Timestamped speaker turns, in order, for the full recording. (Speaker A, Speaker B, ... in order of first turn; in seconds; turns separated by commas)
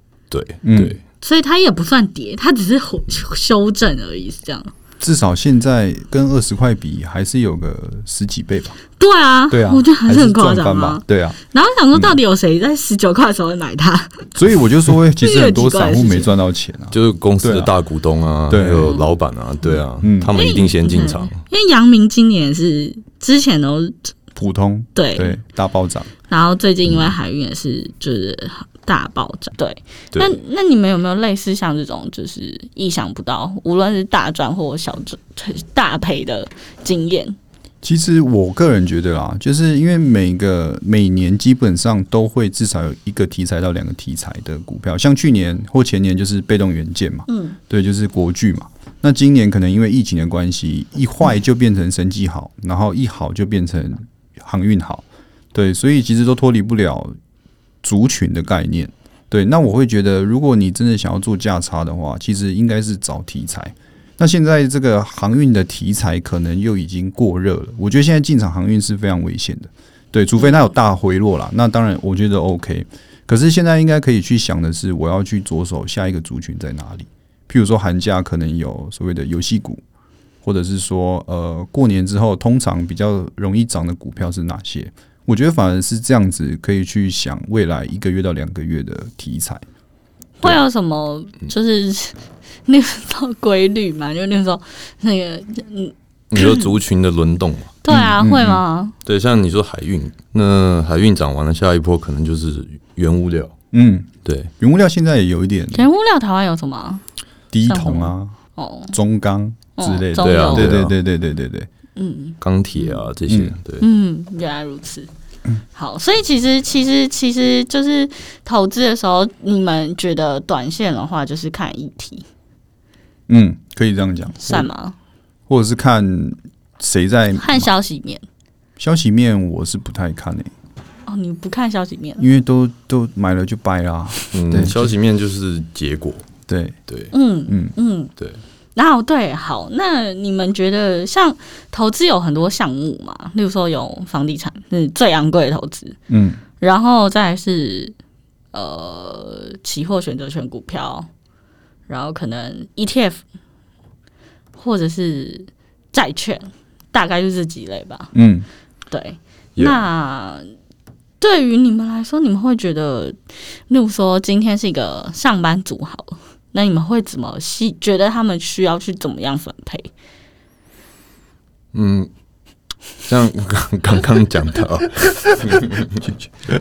Speaker A: 0.3-1.0, Speaker B: 0.6-1.0, Speaker C: 1.2-4.7, Speaker B: 5.0-8.8, Speaker C: 9.0-14.3, Speaker B: 9.5-11.4, Speaker B: 11.9-12.2, Speaker B: 14.4-17.7, Speaker C: 15.2-16.3, Speaker A: 16.9-21.4, Speaker B: 18.5-19.0, Speaker C: 18.8-19.1, Speaker B: 20.0-20.3, Speaker C: 20.3-24.1, Speaker B: 24.4-26.1, Speaker C: 24.9-25.4, Speaker C: 26.3-37.4, Speaker A: 30.1-30.4, Speaker B: 37.8-57.1, Speaker C: 47.3-47.6, Speaker B: 57.8-79.8, Speaker C: 70.4-70.6, Speaker B: 80.4-89.6, Speaker C: 90.4-96.7, Speaker A: 96.3-97.8, Speaker C: 97.8-99.0, Speaker B: 97.9-98.6, Speaker A: 99.0-103.5, Speaker B: 103.7-105.8, Speaker A: 104.2-104.5, Speaker C: 105.7-107.0, Speaker B: 107.5-108.4, Speaker C: 107.6-109.0, Speaker B: 108.9-111.7, Speaker C: 109.8-110.7, Speaker A: 110.2-110.9, Speaker C: 112.0-113.0, Speaker A: 112.4-113.9, Speaker B: 113.3-113.5, Speaker C: 113.8-115.1, Speaker C: 115.7-122.2, Speaker B: 123.3-124.7, Speaker C: 124.4-125.0, Speaker B: 125.5-127.7, Speaker C: 127.4-128.2, Speaker B: 128.8-130.5, Speaker C: 131.1-132.2, Speaker B: 132.2-134.9, Speaker A: 134.3-136.2, Speaker B: 136.5-136.8, Speaker C: 137.1-138.1, Speaker B: 137.5-137.7, Speaker C: 138.8-146.0, Speaker B: 146.1-146.4, Speaker C: 146.6-147.9, Speaker C: 148.5-151.1, Speaker C: 151.9-153.2, Speaker C: 154.6-158.1, Speaker B: 158.1-158.5, Speaker C: 158.9-160.5, Speaker A: 159.6-159.8, Speaker C: 161.2-169.9, Speaker A: 171.7-172.1, Speaker A: 173.0-176.1